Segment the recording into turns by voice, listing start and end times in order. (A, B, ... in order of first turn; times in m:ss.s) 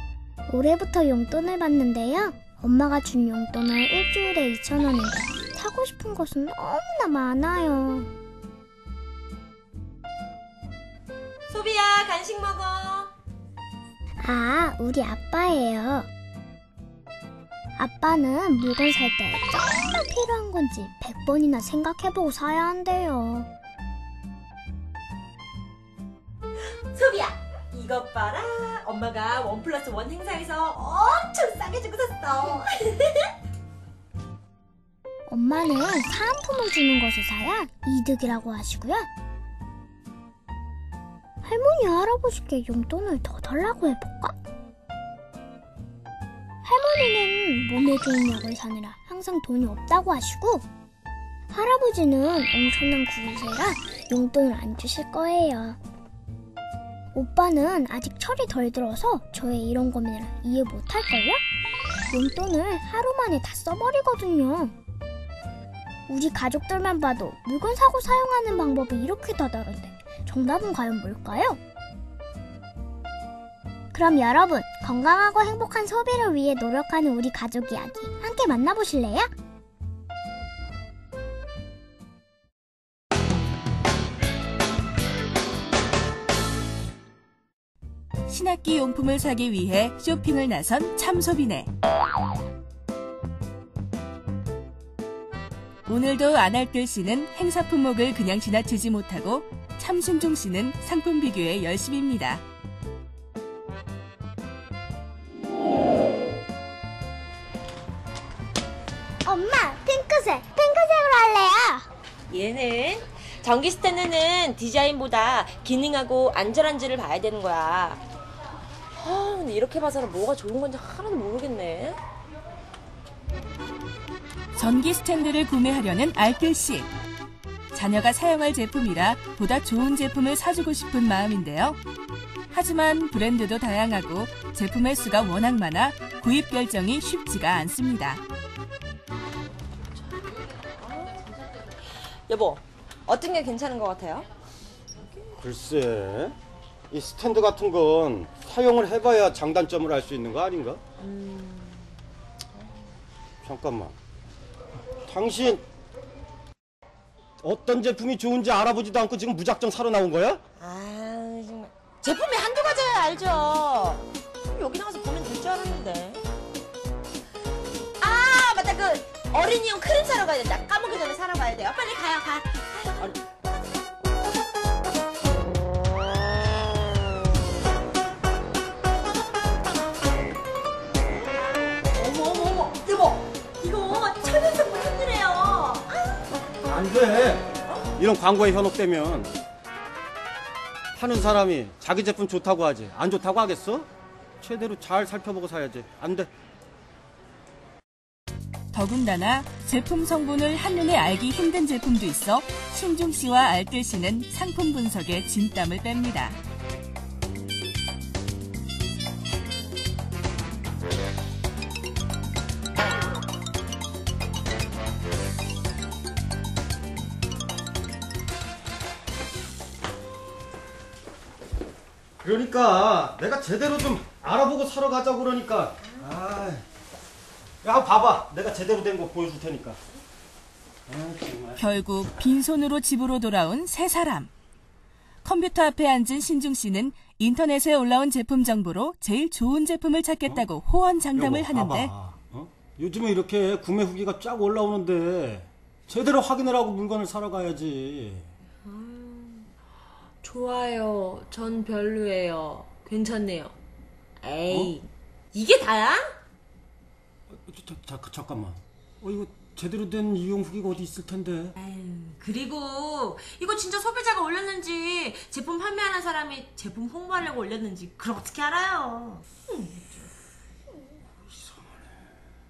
0:00.5-0:08.1 A
0:11.5-0:13.1 B
0:14.2-0:16.1 A
0:17.8-0:23.5 A
0:26.9-0:33.3 B
0:35.3-0:39.1 A
0:41.4-0:44.3 A
0:46.6-0:50.6 A
0:51.5-0:55.8 A
0:57.1-1:01.4 A
1:02.1-1:04.8 A
1:06.1-1:11.6 A
1:13.9-1:19.3 A
1:28.3-1:31.7 C
1:35.8-1:42.4 C
1:49.2-1:51.8 A
1:52.3-1:58.0 B
1:59.0-2:02.0 B
2:04.6-2:06.9 C
2:07.7-2:11.8 C
2:12.5-2:18.2 C
2:20.7-2:21.4 B
2:22.3-2:24.3 B
2:25.4-2:26.4 D
2:26.9-2:30.8 D
2:31.0-2:31.8 B
2:33.4-2:33.9 D
2:35.1-2:35.6 D
2:37.4-2:40.4 D
2:40.6-2:46.2 B
2:48.0-2:53.1 B
3:01.9-3:06.2 B
3:06.6-3:07.4 D
3:08.0-3:09.3 D
3:10.9-3:13.9 D
3:14.4-3:16.3 D
3:18.7-3:26.4 C
3:42.2-3:46.6 D
3:47.6-3:49.8 D
3:50.9-3:51.6 D
3:51.6-3:54.3 C
3:55.2-4:01.9 C
4:01.2-4:08.3 D
4:08.6-4:09.5 B
4:10.2-4:13.5 B
4:14.2-4:16.2 B
4:14.5-4:14.7 D
4:17.3-4:21.5 D
4:21.6-4:30.1 B